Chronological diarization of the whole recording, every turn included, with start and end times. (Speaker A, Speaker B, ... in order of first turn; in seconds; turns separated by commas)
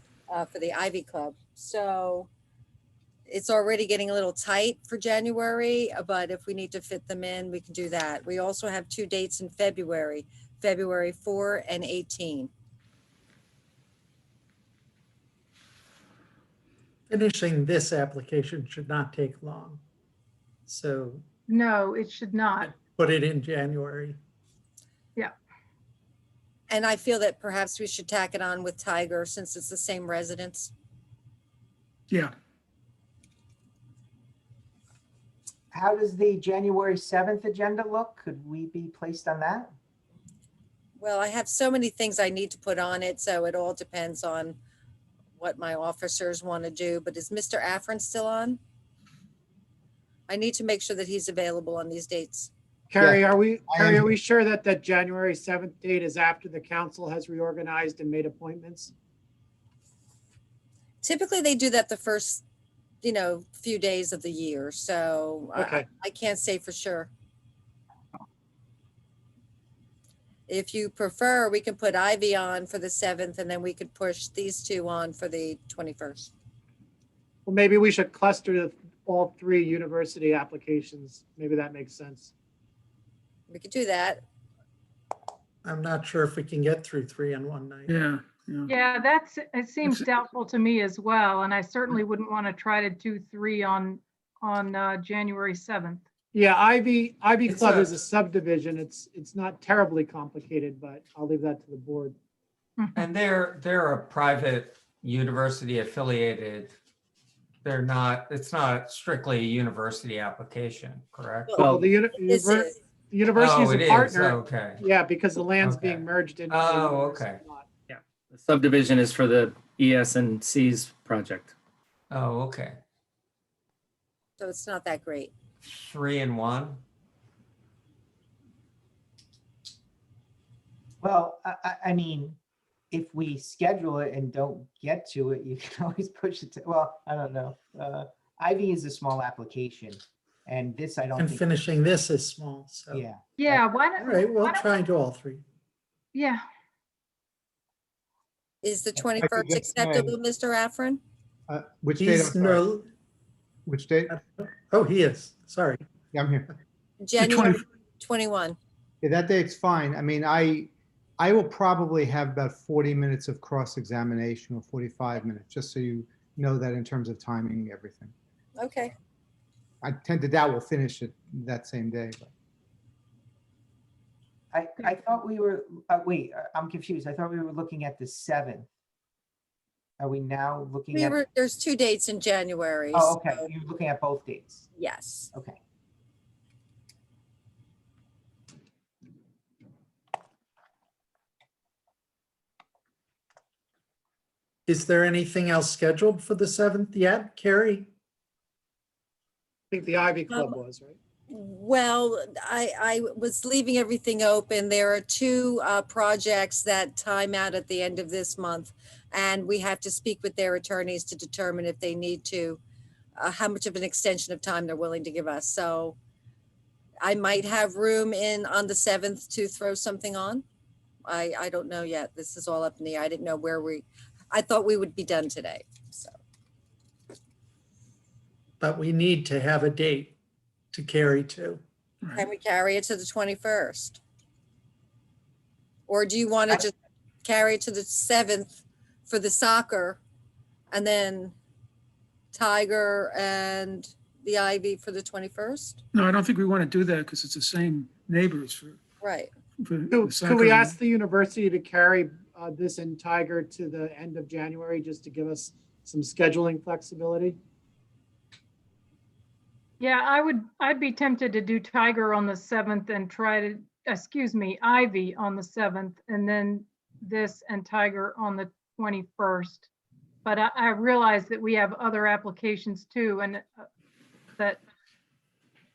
Speaker A: 0.3-2.3, Speaker A: 3.3-12.5, Speaker B: 17.1-19.8, Speaker B: 20.7-21.2, Speaker C: 21.5-22.8, Speaker B: 22.8-24.2, Speaker A: 26.7-30.7, Speaker D: 32.1-32.3, Speaker E: 35.7-39.7, Speaker A: 41.0-44.6, Speaker A: 45.4-48.6, Speaker A: 50.3-52.5, Speaker F: 52.9-58.9, Speaker G: 53.0-54.1, Speaker A: 61.0-62.4, Speaker A: 63.0-67.1, Speaker F: 65.5-65.9, Speaker A: 70.5-76.3, Speaker F: 77.5-82.3, Speaker A: 83.5-84.2, Speaker B: 85.6-88.0, Speaker D: 87.9-88.7, Speaker C: 88.7-96.0, Speaker D: 89.8-90.1, Speaker F: 96.3-102.2, Speaker C: 102.8-103.0, Speaker H: 103.0-106.7, Speaker H: 107.6-111.6, Speaker A: 111.5-112.8, Speaker I: 111.6-111.8, Speaker F: 111.6-117.7, Speaker H: 113.3-114.8, Speaker H: 115.6-117.4, Speaker I: 117.9-121.5, Speaker H: 122.1-122.8, Speaker A: 124.4-125.3, Speaker H: 125.6-126.8, Speaker E: 131.0-132.4, Speaker E: 132.9-141.5, Speaker B: 141.2-143.0, Speaker E: 142.9-143.8, Speaker C: 143.4-144.7, Speaker B: 144.0-145.4, Speaker C: 146.1-146.4, Speaker A: 148.6-151.0, Speaker G: 149.2-150.2, Speaker G: 151.5-152.7, Speaker B: 152.0-152.8, Speaker G: 153.7-154.2, Speaker B: 154.1-155.8, Speaker G: 156.1-156.5, Speaker A: 157.0-158.6, Speaker D: 157.2-157.6, Speaker G: 159.0-168.1, Speaker A: 168.6-168.9, Speaker G: 169.8-172.3, Speaker E: 174.5-178.7, Speaker E: 180.0-181.2, Speaker A: 180.9-183.5, Speaker E: 182.9-184.7, Speaker A: 184.8-185.3, Speaker E: 185.3-185.6, Speaker B: 194.7-197.9, Speaker F: 199.7-201.0, Speaker A: 200.3-200.6, Speaker A: 201.3-212.6, Speaker A: 213.2-216.0, Speaker A: 217.0-220.4, Speaker A: 221.1-226.1, Speaker B: 228.6-230.2, Speaker B: 230.7-231.6, Speaker D: 232.0-232.3, Speaker A: 232.1-234.0, Speaker A: 235.9-240.0, Speaker A: 240.7-241.3, Speaker A: 242.3-245.8, Speaker D: 245.9-248.8, Speaker A: 249.0-249.3, Speaker D: 249.6-250.8, Speaker F: 249.9-257.4, Speaker C: 259.8-269.7, Speaker C: 270.2-273.6